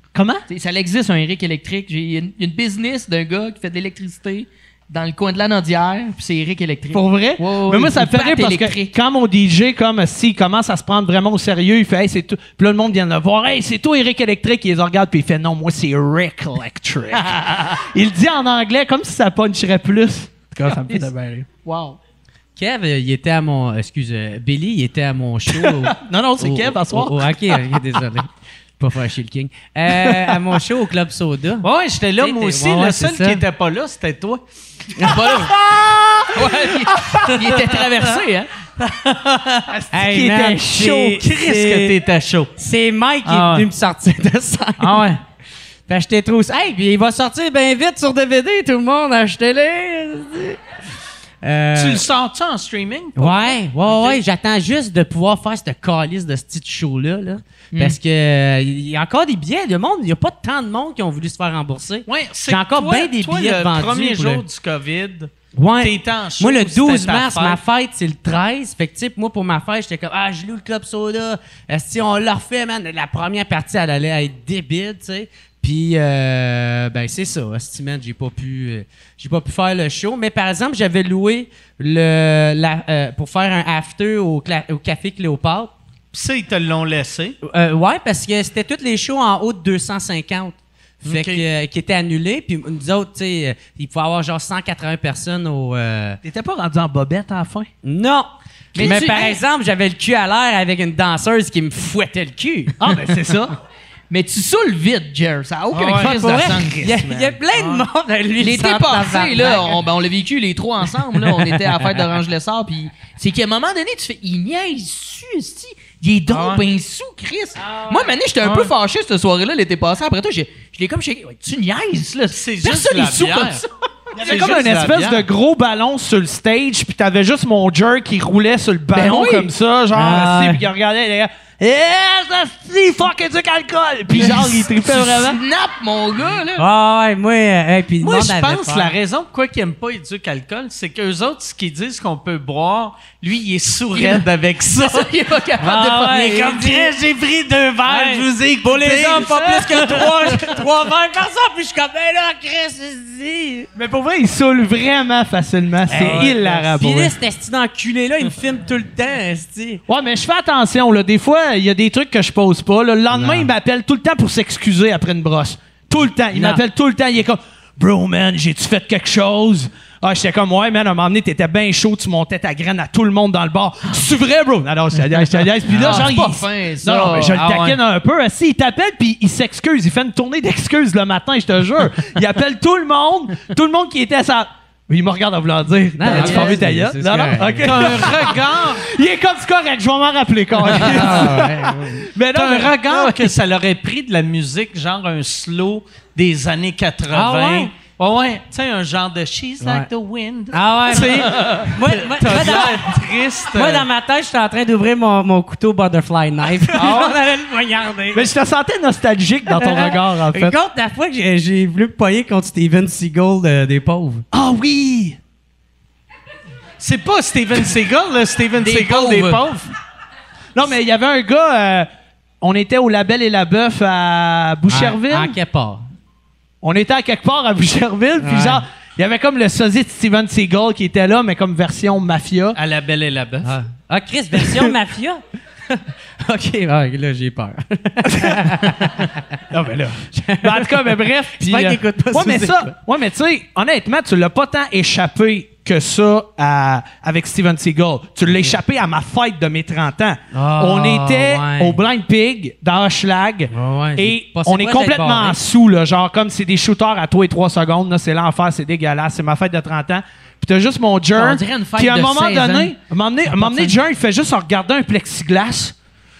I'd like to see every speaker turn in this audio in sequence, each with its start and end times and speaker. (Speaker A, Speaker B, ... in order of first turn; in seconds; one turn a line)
Speaker A: 0.1-0.4
Speaker B: 0.5-8.8
Speaker A: 6.9-21.5
Speaker B: 21.6-22.0
Speaker C: 22.6-31.6
Speaker A: 25.6-27.3
Speaker D: 31.6-34.4
Speaker C: 32.2-33.4
Speaker C: 35.0-35.3
Speaker B: 35.0-35.5
Speaker A: 35.7-36.3
Speaker B: 36.3-38.5
Speaker A: 36.9-37.3
Speaker D: 38.8-39.7
Speaker A: 39.7-41.2
Speaker C: 39.9-42.0
Speaker D: 41.2-42.5
Speaker C: 42.6-45.1
Speaker D: 43.2-43.7
Speaker D: 44.8-45.2
Speaker C: 45.9-50.6
Speaker C: 51.4-52.0
Speaker D: 51.7-54.2
Speaker C: 53.1-64.4
Speaker B: 57.7-58.0
Speaker D: 62.0-67.6
Speaker C: 65.5-85.7
Speaker D: 86.1-87.4
Speaker C: 87.4-96.2
Speaker D: 91.0-91.4
Speaker A: 96.2-97.7
Speaker C: 97.8-102.8
Speaker B: 98.7-99.4
Speaker A: 98.8-99.2
Speaker A: 102.8-103.5
Speaker B: 104.1-107.0
Speaker A: 105.8-107.3
Speaker C: 106.0-109.8
Speaker D: 107.5-107.8
Speaker B: 108.4-123.7
Speaker D: 116.3-116.6
Speaker C: 117.6-118.1
Speaker D: 122.3-123.6
Speaker D: 124.1-125.2
Speaker A: 124.1-135.4
Speaker B: 128.9-129.5
Speaker C: 129.9-130.6
Speaker B: 134.1-136.7
Speaker C: 136.6-138.9
Speaker D: 138.0-145.1
Speaker B: 143.9-144.2
Speaker B: 144.8-146.4
Speaker C: 145.6-147.0
Speaker D: 146.2-150.4
Speaker C: 147.8-153.7
Speaker A: 153.7-157.1
Speaker C: 155.9-159.8
Speaker A: 159.9-193.3
Speaker C: 163.1-163.5
Speaker C: 166.3-166.6
Speaker B: 175.7-177.6
Speaker D: 177.5-177.7
Speaker C: 186.0-187.9
Speaker D: 186.2-186.4
Speaker D: 187.6-188.9
Speaker C: 190.7-192.0
Speaker D: 191.0-191.3
Speaker D: 192.3-203.8
Speaker C: 197.1-197.7
Speaker C: 199.6-199.9
Speaker C: 200.5-208.3
Speaker A: 206.7-207.1
Speaker A: 208.1-210.5
Speaker C: 209.5-214.2
Speaker A: 214.3-215.2
Speaker D: 216.8-219.7
Speaker B: 218.6-219.4
Speaker A: 220.5-221.9
Speaker A: 222.4-225.3
Speaker C: 224.7-225.8
Speaker A: 226.6-232.6
Speaker C: 228.2-228.6
Speaker D: 232.5-233.6
Speaker C: 233.4-239.1
Speaker A: 238.1-238.5
Speaker A: 239.5-265.7
Speaker C: 240.1-242.7
Speaker C: 250.3-251.8
Speaker C: 253.5-255.4
Speaker B: 261.1-263.7